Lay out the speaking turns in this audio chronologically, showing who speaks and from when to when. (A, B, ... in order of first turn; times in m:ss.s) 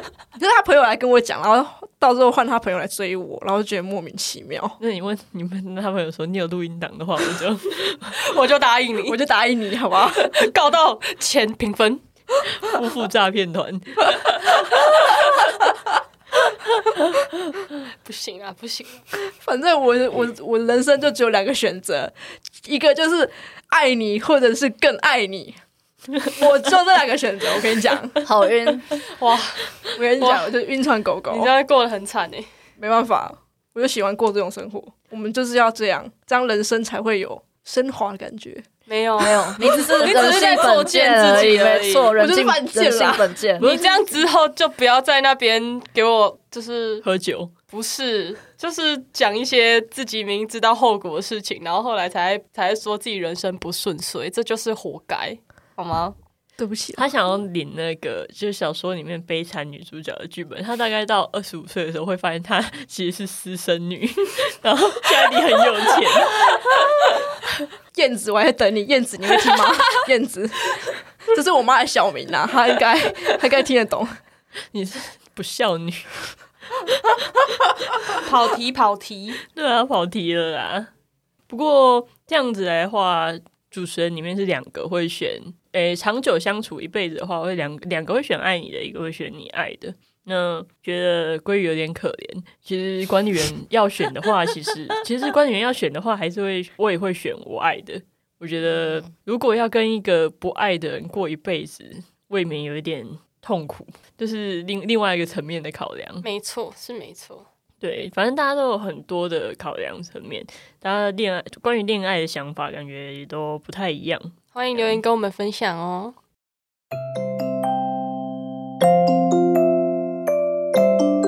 0:00.4-0:04.8 A
0:04.8-0:08.2 B
0:08.2-0:09.2 C
0:09.1-0:10.3 A
0:10.1-0:12.0 C
0:12.5-0:15.0 B
0:18.0-0:19.0 C
0:19.4-0:25.6 A
0:26.2-0:28.2 A
0:28.2-0:28.9 D
0:29.1-0:30.5 C
0:29.9-0:31.5 A
0:31.3-0:32.5 C
0:32.8-0:38.6 A
0:38.9-0:42.1 C
0:39.2-0:43.8 D
0:39.6-0:40.6 A
0:42.1-0:43.4 A
0:43.6-0:47.0 C
0:47.0-0:47.5 B
0:47.7-0:56.1 C
0:56.6-0:57.0 A
0:57.0-1:07.1 B
1:07.9-1:14.1 A
1:14.7-1:16.3 B
1:18.2-1:19.4 C
1:19.5-1:20.9 B
1:21.5-1:46.2 B
1:46.2-1:47.4 C
1:47.8-1:55.0 B
1:54.5-1:56.1 C